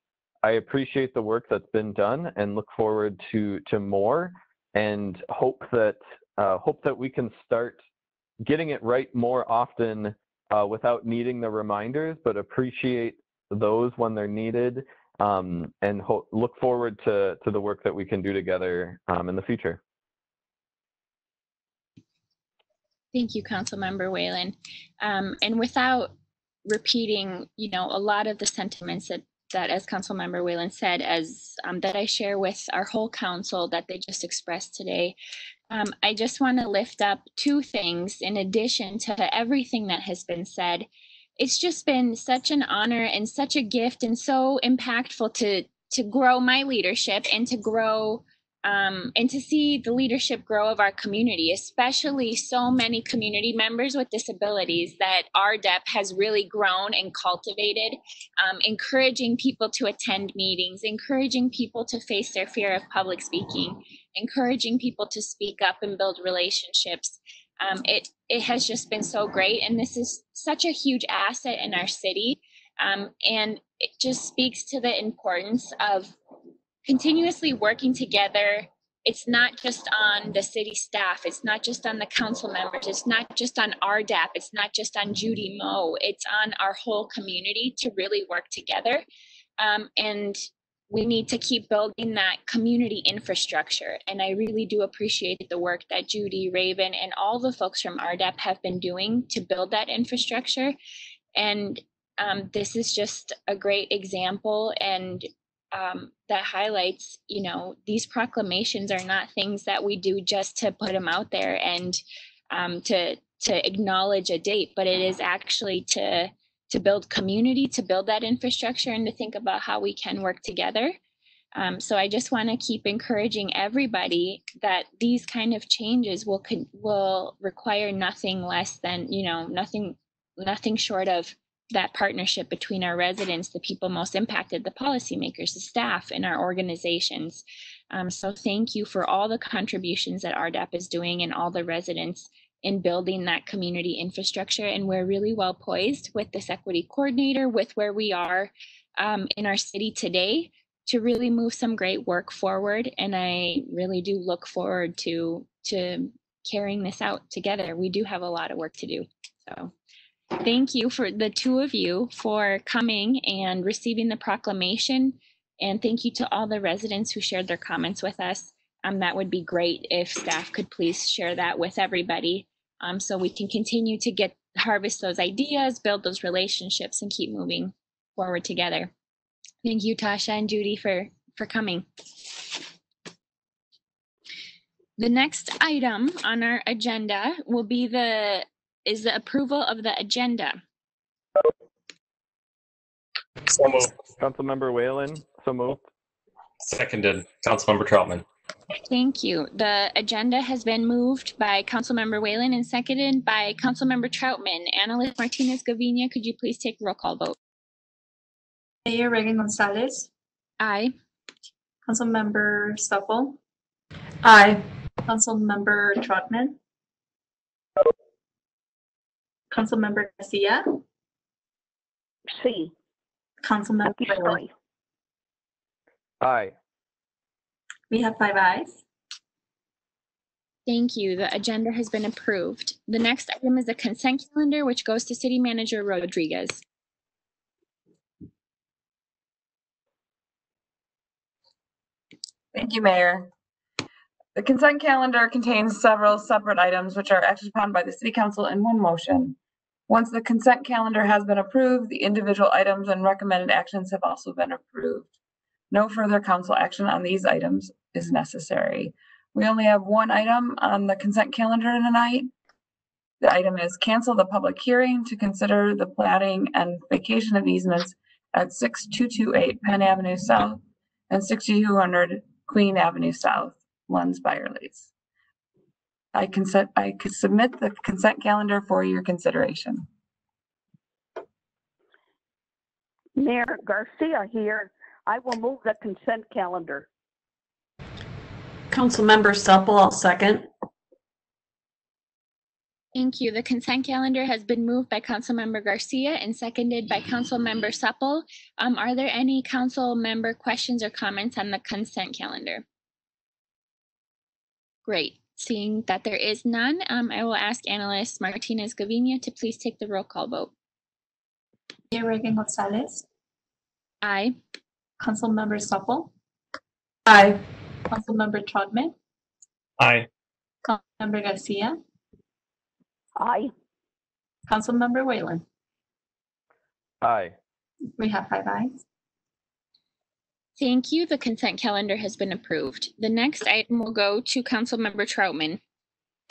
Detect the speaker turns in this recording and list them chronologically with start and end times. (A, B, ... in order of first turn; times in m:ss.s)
0:00.4-0:07.8 A
0:08.4-0:19.8 A
0:23.1-0:26.1 B
0:26.7-0:35.2 B
0:35.7-0:40.9 B
0:41.4-1:16.2 B
1:16.8-1:29.0 B
1:29.6-1:40.8 B
1:41.3-2:01.0 B
2:01.5-2:39.7 B
2:40.4-2:58.9 B
2:59.6-3:01.9 B
3:05.0-3:10.6 B
3:13.5-3:15.8 A
3:16.6-3:18.2 C
3:18.9-3:27.4 B
3:28.8-3:30.1 D
3:30.6-3:30.9 B
3:31.8-3:33.4 D
3:34.3-3:34.5 D
3:35.0-3:36.6 D
3:39.5-3:40.6 D
3:42.3-3:42.7 E
3:43.4-3:44.4 D
3:43.9-3:44.5 E
3:46.2-3:46.5 A
3:47.9-3:48.8 D
3:50.6-3:56.6 B
4:02.5-4:03.3 F
4:04.3-4:09.4 F
4:09.9-4:15.1 F
4:15.7-4:22.3 F
4:23.2-4:34.9 F
4:36.1-4:39.8 F
4:43.2-4:46.9 E
4:48.7-4:50.5 G
4:52.9-5:02.6 B
5:04.8-5:10.5 B
5:11.9-5:13.0 D
5:14.0-5:14.4 B
5:15.0-5:16.1 D
5:17.1-5:17.4 G
5:17.9-5:18.9 D
5:19.8-5:20.1 C
5:20.6-5:21.8 D
5:23.2-5:23.5 E
5:24.5-5:25.4 D
5:27.0-5:27.3 A
5:28.0-5:28.8 D
5:30.6-5:35.6 B